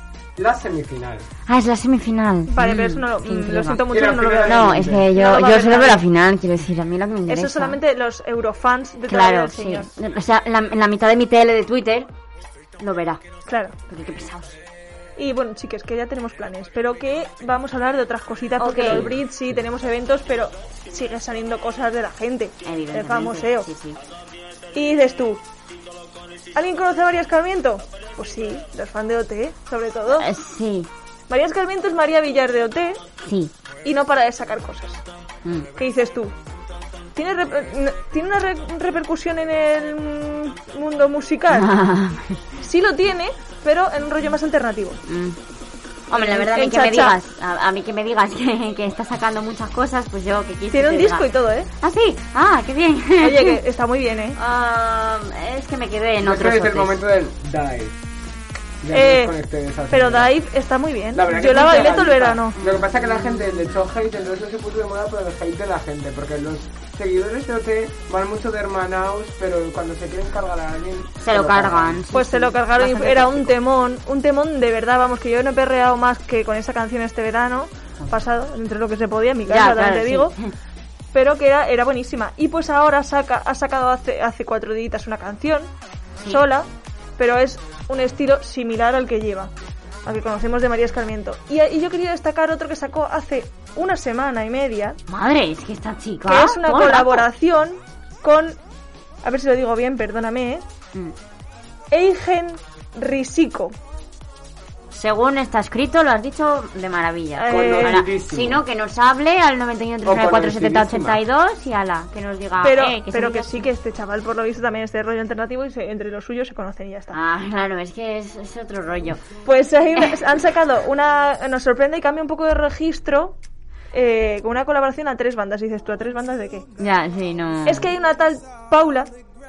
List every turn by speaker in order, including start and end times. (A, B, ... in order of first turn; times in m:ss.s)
0:00.4-0:01.3 A
0:01.5-0:03.8 B
0:02.5-0:06.0 C
0:03.9-0:05.1 A
0:04.4-0:07.8 B
0:07.3-0:09.9 C
0:09.0-0:12.1 B
0:12.8-0:13.2 B
0:13.4-0:13.8 C
0:13.8-0:14.6 B
0:15.2-0:23.7 C
0:18.6-0:19.2 B
0:22.6-0:24.0 B
0:24.7-0:25.4 C
0:26.5-0:30.3 C
0:30.1-0:30.9 B
0:31.3-0:33.0 C
0:33.2-0:33.5 B
0:33.8-0:35.0 C
0:35.7-0:36.3 C
0:37.1-0:41.7 C
0:41.5-0:42.4 B
0:42.6-0:45.0 C
0:45.0-0:45.4 B
0:46.1-0:51.3 B
0:46.1-0:47.2 C
0:50.7-0:51.7 C
0:51.8-0:53.6 B
0:53.2-0:54.4 C
0:54.3-0:57.0 B
0:56.2-0:58.0 A
0:58.8-1:00.3 A
0:58.9-0:59.4 C
0:59.9-1:02.6 C
1:01.1-1:12.0 A
1:02.5-1:03.4 B
1:11.2-1:13.6 B
1:12.1-1:20.4 C
1:19.4-1:20.5 B
1:21.1-1:25.7 C
1:26.2-1:26.7 C
1:27.2-1:29.5 C
1:30.0-1:35.0 C
1:35.1-1:37.2 B
1:36.2-1:38.6 C
1:39.2-1:40.6 C
1:41.9-1:43.7 C
1:44.9-1:53.7 B
1:47.4-1:48.0 C
1:47.5-1:48.6 A
1:50.0-1:51.2 A
1:52.6-1:57.2 C
1:57.1-1:59.2 B
1:59.4-2:03.4 C
2:03.9-2:06.6 C
2:06.8-2:07.9 B
2:07.6-2:09.1 C